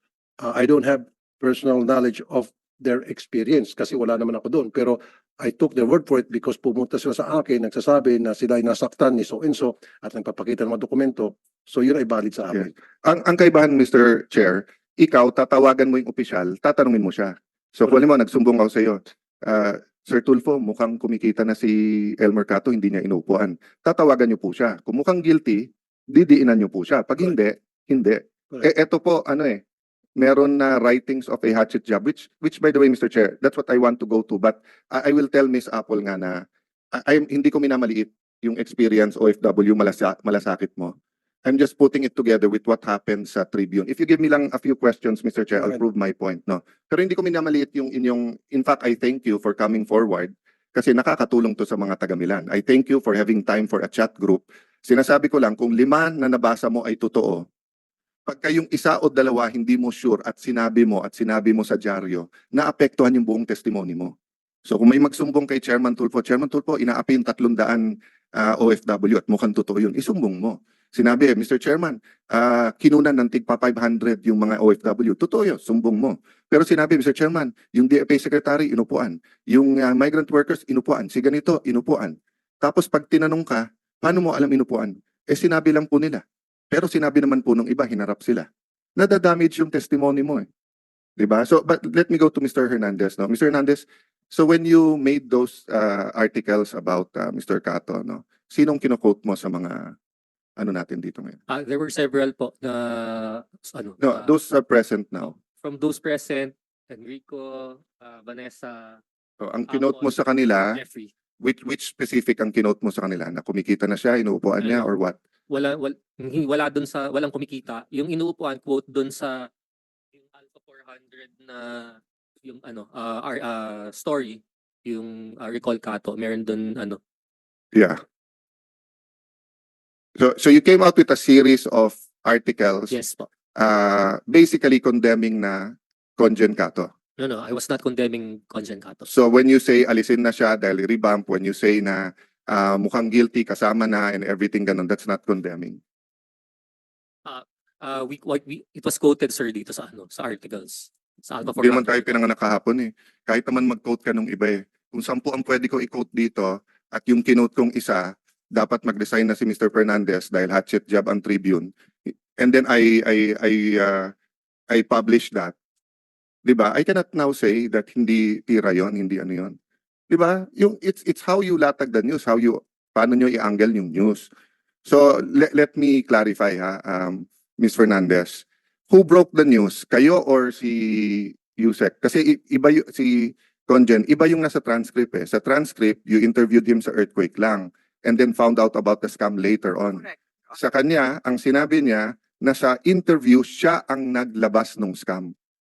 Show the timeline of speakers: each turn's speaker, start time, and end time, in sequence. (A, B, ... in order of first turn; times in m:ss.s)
0:00.4-0:12.7 A
0:12.5-0:29.6 B
0:30.2-0:57.5 B
0:58.3-1:04.1 B
1:04.7-1:30.5 B
1:31.2-1:39.9 B
1:40.6-1:41.4 B
1:41.5-1:44.3 C
1:44.0-1:45.4 B
1:45.6-1:49.0 C
1:49.4-1:50.8 B
1:49.7-1:51.1 C
1:51.4-1:55.2 B
1:54.6-1:54.9 C
1:55.5-1:59.5 C
2:00.2-2:07.0 C
2:07.7-2:08.0 B
2:10.2-2:12.9 B
2:12.9-2:13.3 C
2:13.6-2:16.9 B
2:17.2-2:19.1 C
2:19.1-2:25.8 B
2:27.3-2:32.1 C
2:31.6-2:44.1 B
2:44.7-2:45.6 B
2:46.4-2:49.6 B
2:50.1-2:54.3 B
2:54.9-3:15.3 B